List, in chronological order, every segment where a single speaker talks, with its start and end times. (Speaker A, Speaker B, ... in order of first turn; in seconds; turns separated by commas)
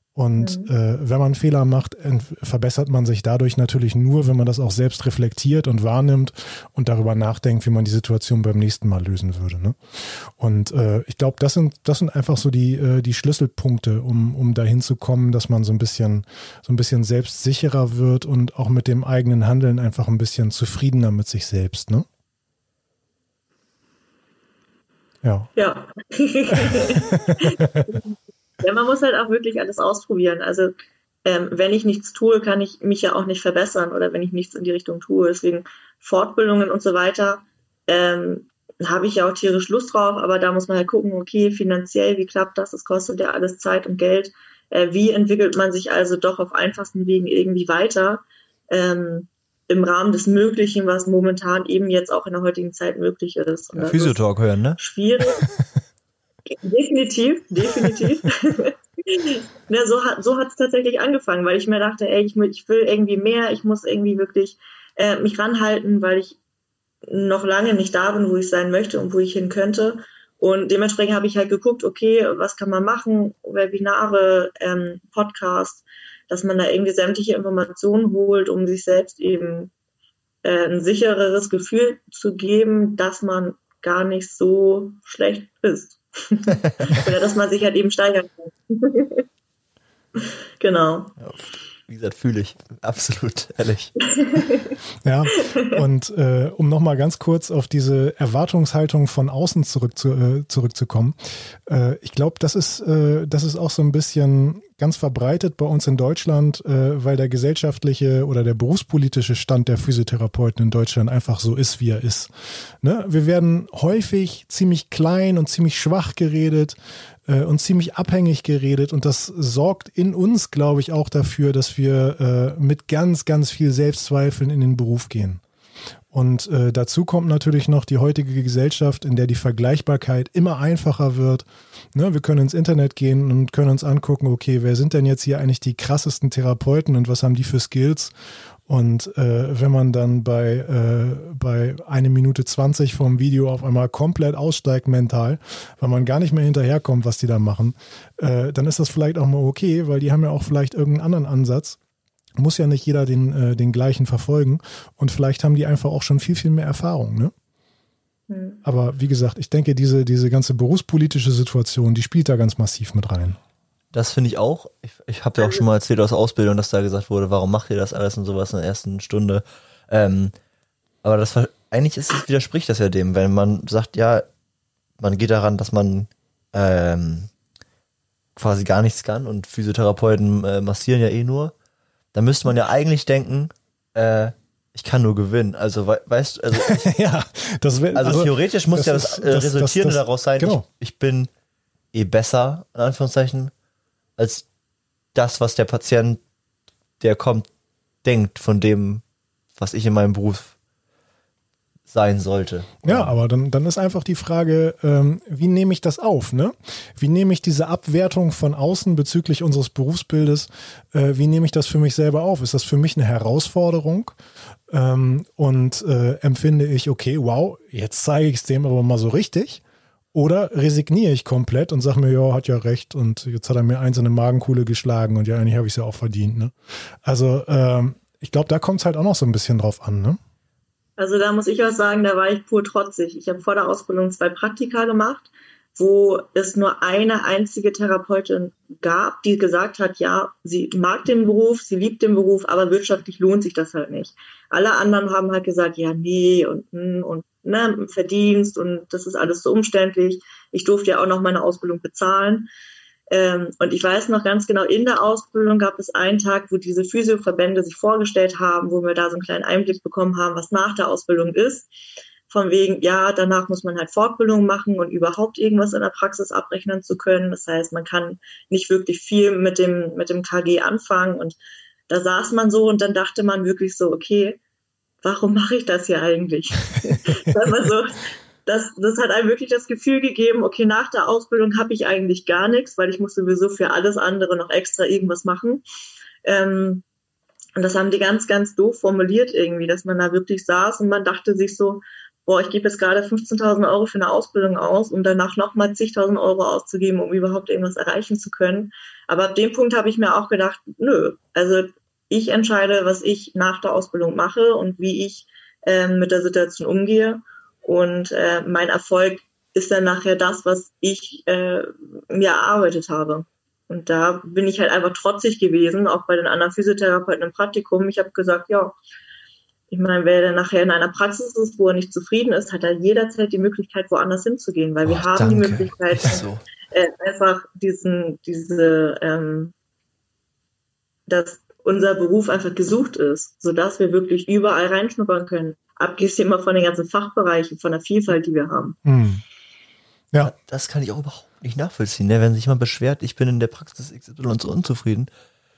Speaker A: 0.1-22.1, Speaker B: 0.4-0.7, Speaker A: 25.2-25.5, Speaker B: 25.6-30.7, Speaker A: 26.5-27.9, Speaker B: 31.2-54.2, Speaker C: 53.7-54.8, Speaker B: 54.8-55.4, Speaker B: 56.5-66.4, Speaker B: 67.0-79.7, Speaker B: 80.4-89.2, Speaker B: 90.2-91.1, Speaker C: 91.2-94.0, Speaker B: 94.1-94.7, Speaker A: 95.0-116.8, Speaker B: 95.5-95.7, Speaker A: 117.3-125.4, Speaker A: 126.1-138.1, Speaker A: 138.7-151.8, Speaker A: 152.4-157.3, Speaker B: 158.3-158.6, Speaker A: 158.6-163.4, Speaker C: 163.9-170.3, Speaker C: 171.0-174.2, Speaker C: 175.0-177.3, Speaker C: 178.3-181.5, Speaker C: 182.1-186.9, Speaker A: 186.5-190.6, Speaker C: 187.9-191.3, Speaker C: 191.9-193.5, Speaker C: 194.2-194.4, Speaker C: 195.1-196.2, Speaker C: 197.0-197.5, Speaker C: 198.0-199.0, Speaker C: 199.6-200.5, Speaker C: 201.9-203.1, Speaker A: 202.8-214.2, Speaker A: 214.7-219.6, Speaker A: 220.1-226.5, Speaker A: 227.0-230.2, Speaker B: 231.0-252.5, Speaker B: 253.1-261.7, Speaker B: 262.3-271.4, Speaker B: 271.9-274.4, Speaker B: 275.0-285.6, Speaker B: 286.2-286.8, Speaker B: 287.6-318.8, Speaker B: 319.7-329.5, Speaker C: 324.9-326.4, Speaker B: 331.1-338.8, Speaker A: 338.8-339.2, Speaker C: 340.2-345.1